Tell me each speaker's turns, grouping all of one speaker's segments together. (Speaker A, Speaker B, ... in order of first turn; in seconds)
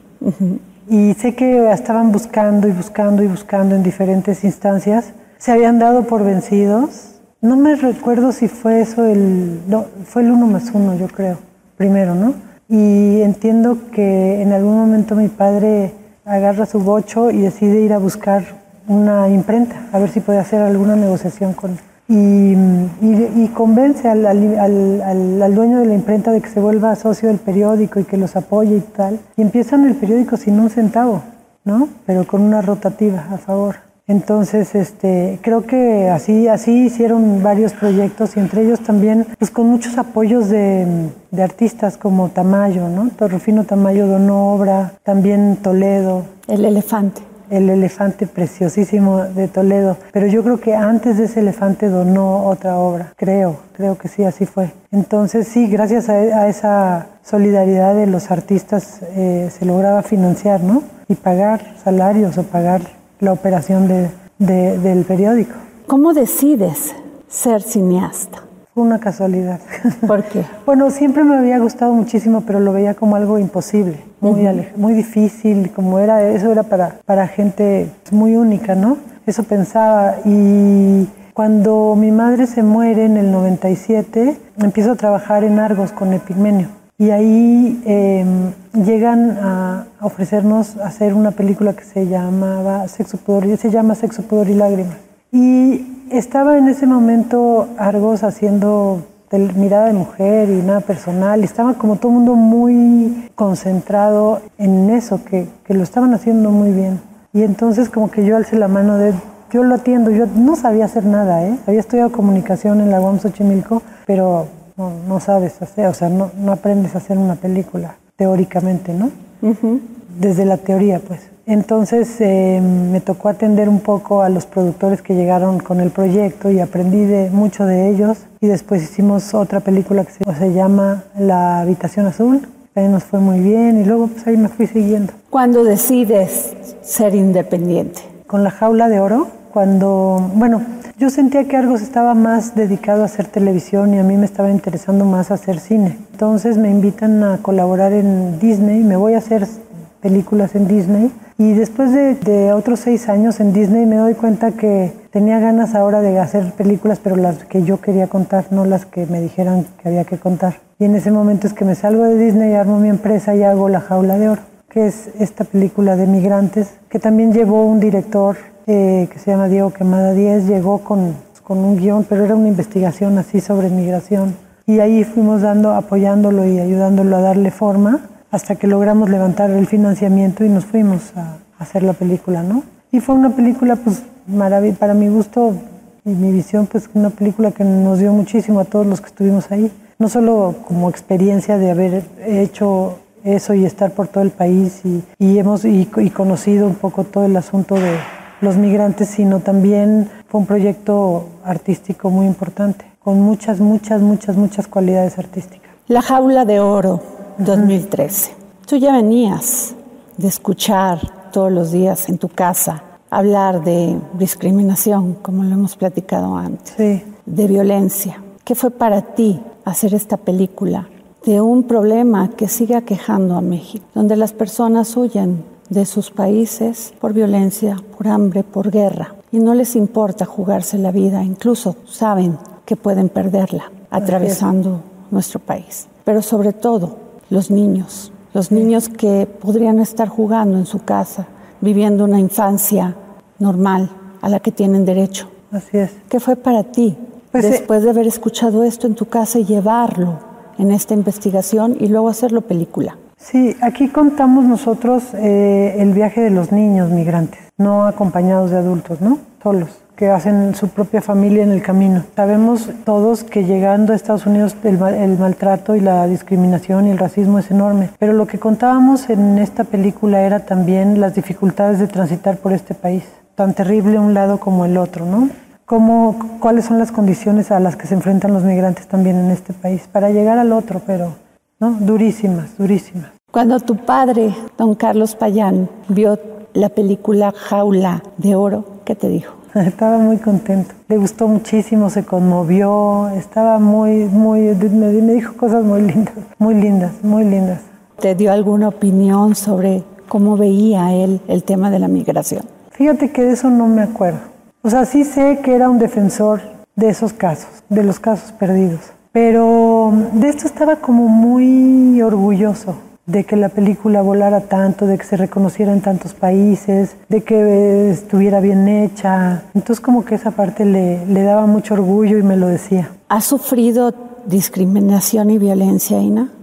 Speaker A: 0.2-0.6, 46.5-47.2, 65.9-68.4, 70.1-70.5, 74.2-74.6, 119.4-119.8, 135.3-138.1, 205.9-245.3, 246.1-253.0, 283.3-289.4, 298.0-302.5, 323.1-326.3
Speaker B: 0.9-46.3, 47.5-65.6, 68.7-70.1, 70.6-119.1, 120.1-135.1, 138.3-205.7, 207.4-207.7, 216.7-217.0, 234.1-234.4, 245.5-246.0, 247.3-247.6, 253.2-283.1, 289.6-297.6, 302.8-322.9